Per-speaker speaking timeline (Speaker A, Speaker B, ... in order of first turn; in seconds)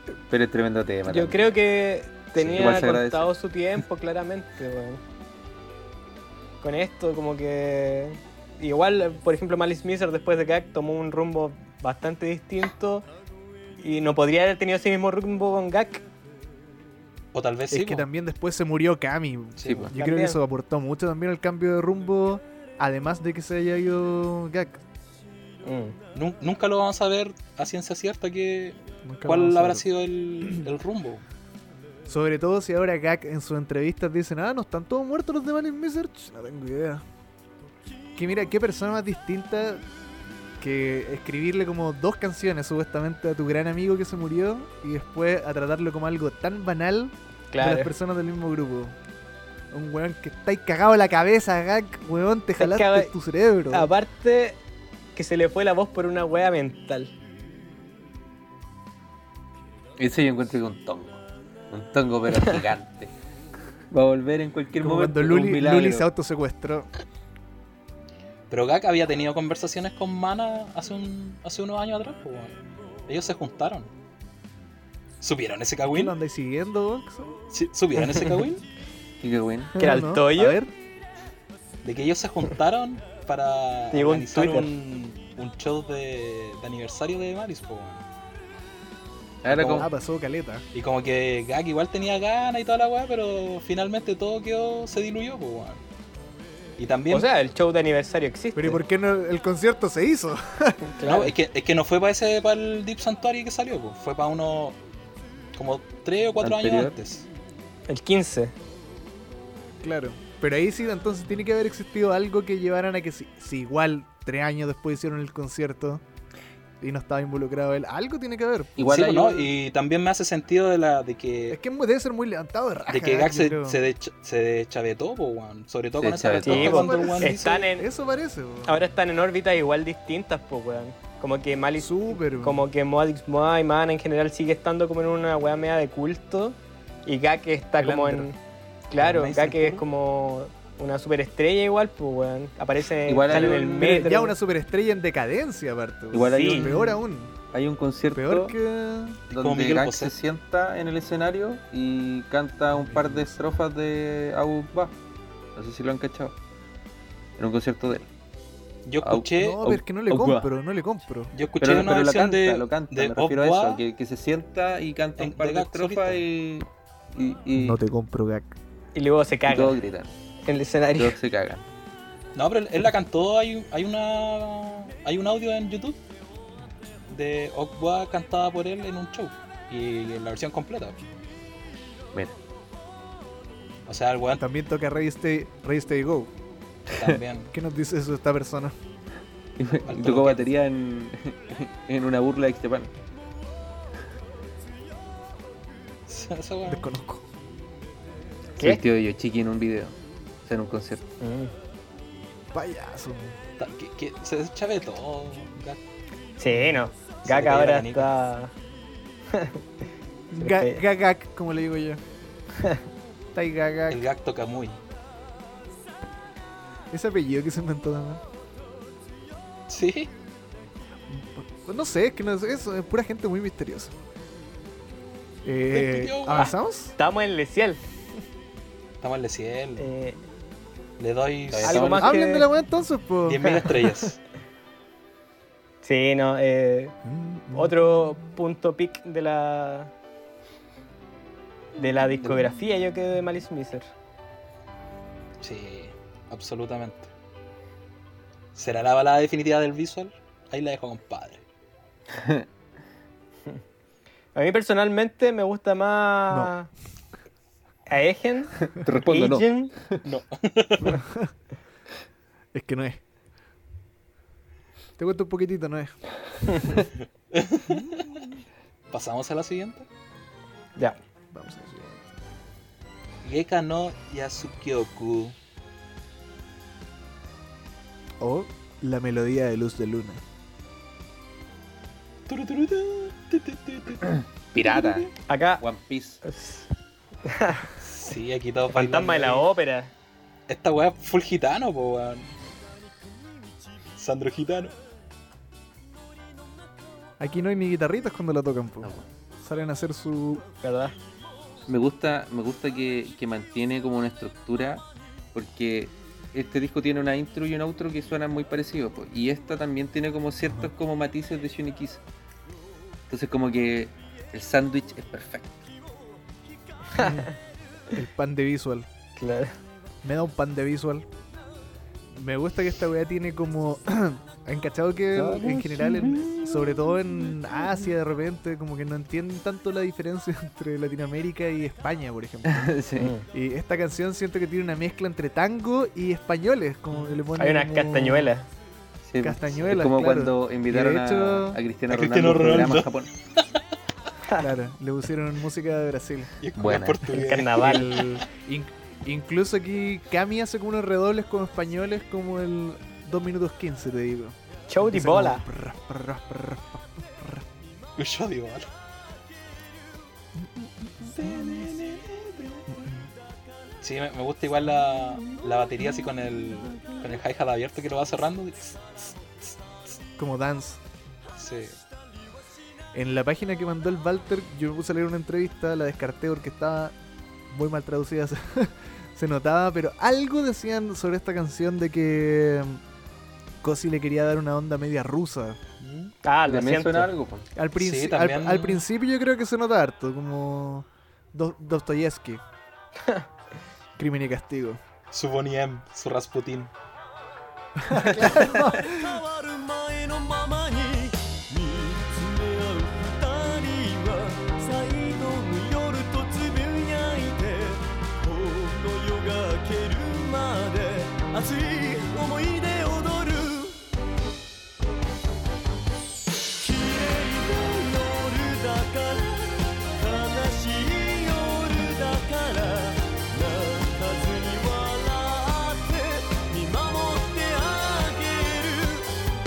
Speaker A: 0.3-1.6, 2.4-3.3, 19.6-19.9, 60.0-61.2, 61.7-63.1, 63.9-66.1, 79.2-79.8, 89.4-89.9, 106.4-107.0, 118.8-119.5, 126.0-127.0, 143.1-144.0, 146.1-147.0, 147.5-148.6, 149.3-154.9, 155.6-156.3, 157.4-158.1, 159.0-160.5, 161.6-167.8, 169.5-170.1, 170.9-171.6, 189.6-192.9, 198.6-199.9, 200.5-201.1, 231.5-232.1, 252.1-252.5, 258.6-260.0, 284.5-286.2, 301.7-312.0, 313.1-315.6, 325.2-326.3, 332.5-333.1, 339.1-343.1, 346.6-347.2, 386.5-387.5
Speaker B: 1.1-5.0, 6.6-13.1, 13.8-16.0, 20.0-20.4, 25.6-25.9, 47.5-47.9, 52.6-53.1, 53.7-54.6, 55.2-57.1, 79.8-80.6, 83.9-84.7, 97.1-98.8, 100.9-101.3, 107.9-108.5, 126.4-127.9, 128.7-138.4, 138.9-144.3, 146.3-146.7, 168.9-169.8, 170.5-171.2, 201.2-201.5, 206.4-208.5, 209.3-209.6, 210.4-210.8, 212.6-212.8, 226.3-227.8, 229.8-230.2, 231.6-232.5, 235.8-236.9, 237.5-239.9, 241.8-243.9, 254.3-256.7, 257.9-259.7, 285.3-285.6, 286.2-286.7, 287.2-287.7, 288.7-289.9, 300.6-300.9, 316.9-317.3, 319.2-319.6, 333.0-333.3, 337.4-338.5, 347.1-348.0, 354.7-355.4, 386.2-387.1
Speaker C: 17.3-18.1, 19.6-19.9, 26.1-31.2, 68.5-72.6, 73.1-73.9, 75.2-76.1, 77.5-78.6, 81.8-88.0, 89.5-89.9, 90.7-95.8, 96.8-97.3, 101.0-104.8, 105.5-107.3, 118.9-121.6, 122.9-127.7, 139.0-139.8, 149.3-150.1, 158.9-159.6, 161.3-163.8, 165.2-166.2, 172.3-176.0, 177.1-181.0, 183.9-184.4, 186.9-187.5, 189.9-190.5, 196.1-196.9, 203.6-205.8, 207.2-208.1, 213.9-214.8, 219.7-220.1, 225.7-226.5, 229.0-229.9, 231.0-232.0, 233.3-234.2, 245.4-247.1, 248.6-251.4, 260.0-261.0, 266.9-268.3, 268.9-269.9, 273.2-275.4, 282.3-285.1, 287.8-289.5, 290.5-292.3, 294.0-294.7, 341.9-342.9, 346.4-348.2, 358.0-358.7, 361.2-362.6, 363.8-369.6, 371.4-371.8, 385.8-386.1, 387.8-388.8, 395.1-396.7
Speaker D: 17.7-24.8, 29.0-29.9, 32.1-37.0, 38.2-39.9, 40.6-49.0, 49.7-53.9, 64.8-66.9, 75.8-77.4, 79.8-80.7, 89.7-90.6, 98.5-101.0, 109.8-116.0, 116.8-118.7, 121.5-123.8, 126.6-128.8, 131.8-132.7, 137.8-138.3, 143.8-147.3, 148.1-149.2, 159.4-161.3, 167.5-168.6, 184.4-186.3, 187.5-188.8, 196.7-197.2, 202.5-203.4, 206.5-206.8, 210.3-212.0, 213.3-214.1, 216.9-218.2, 221.1-223.9, 225.4-227.0, 232.0-233.9, 237.0-238.2, 260.8-261.3, 262.5-263.0, 265.0-265.9, 267.7-268.3, 271.3-272.1, 278.2-280.2, 297.2-300.4, 310.4-310.7, 317.0-317.3, 317.9-318.9, 320.0-321.1, 322.1-332.8, 333.3-338.3, 339.2-341.6, 344.3-346.3, 347.6-357.4, 360.4-361.8, 362.7-363.1, 370.2-370.8, 372.9-376.9, 377.5-382.8, 383.6-385.6, 387.6-392.4, 394.0-394.8, 397.8-399.2
Speaker E: 398.8-413.8, 416.6-429.1